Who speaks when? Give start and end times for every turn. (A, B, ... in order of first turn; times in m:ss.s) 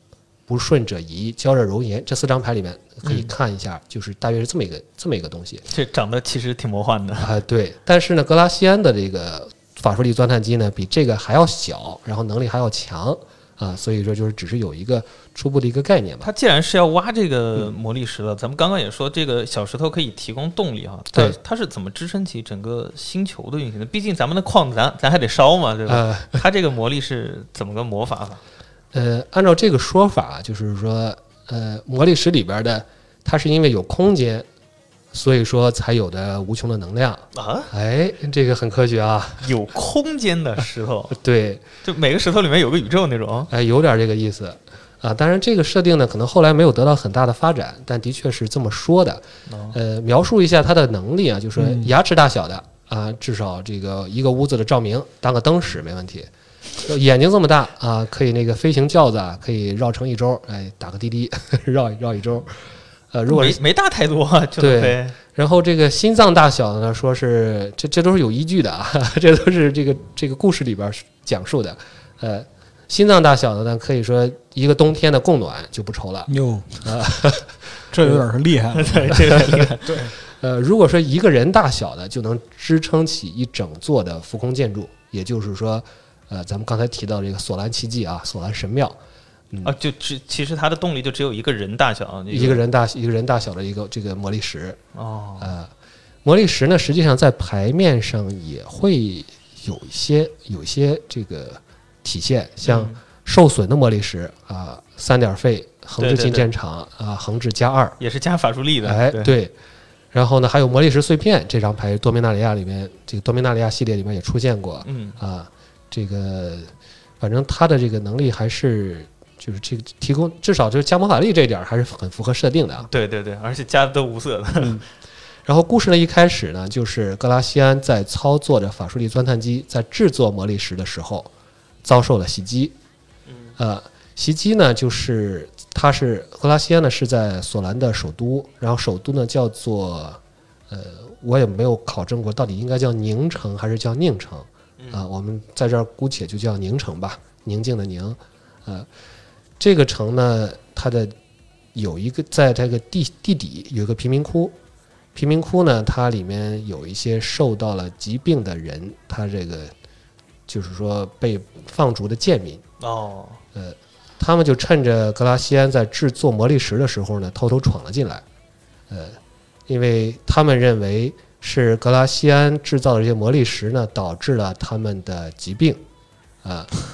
0:00.5-0:05.6 A
0:03.0-0:03.3 B
0:05.7-0:07.3 B
0:07.2-0:16.3 A
0:16.2-0:28.4 B
0:25.9-0:26.4 A
0:28.9-0:34.4 A
0:35.1-0:39.5 A
0:37.3-0:37.7 B
0:39.4-0:41.2 B
0:41.1-0:41.6 A
0:41.8-0:43.5 B
0:43.5-0:56.3 A
0:49.5-0:49.8 B
0:51.6-0:51.9 C
0:56.8-1:02.5 A
1:03.1-1:03.6 A
1:03.3-1:05.2 B
1:04.6-1:16.3 A
1:16.3-1:16.8 C
1:16.8-1:18.2 A
1:17.9-1:20.1 C
1:18.7-1:20.0 B
1:20.2-1:29.0 A
1:29.6-1:32.6 B
1:32.3-1:34.8 A
1:34.9-1:35.5 B
1:35.4-1:35.7 A
1:36.2-1:48.0 A
1:42.6-1:43.0 B
1:46.0-1:46.5 B
1:48.0-1:49.4 B
1:48.8-1:49.5 A
1:50.1-2:02.9 A
1:54.8-1:55.2 B
2:02.9-2:04.8 B
2:05.4-2:11.3 A
2:11.8-2:12.7 A
2:13.3-2:13.5 B
2:13.6-2:28.9 A
2:24.8-2:25.0 B
2:29.6-2:31.1 A
2:31.7-2:34.6 A
2:35.1-2:39.7 A
2:40.5-2:42.6 A
2:42.8-2:43.4 B
2:43.5-2:48.2 A
2:48.9-2:55.8 A
2:56.4-2:56.7 A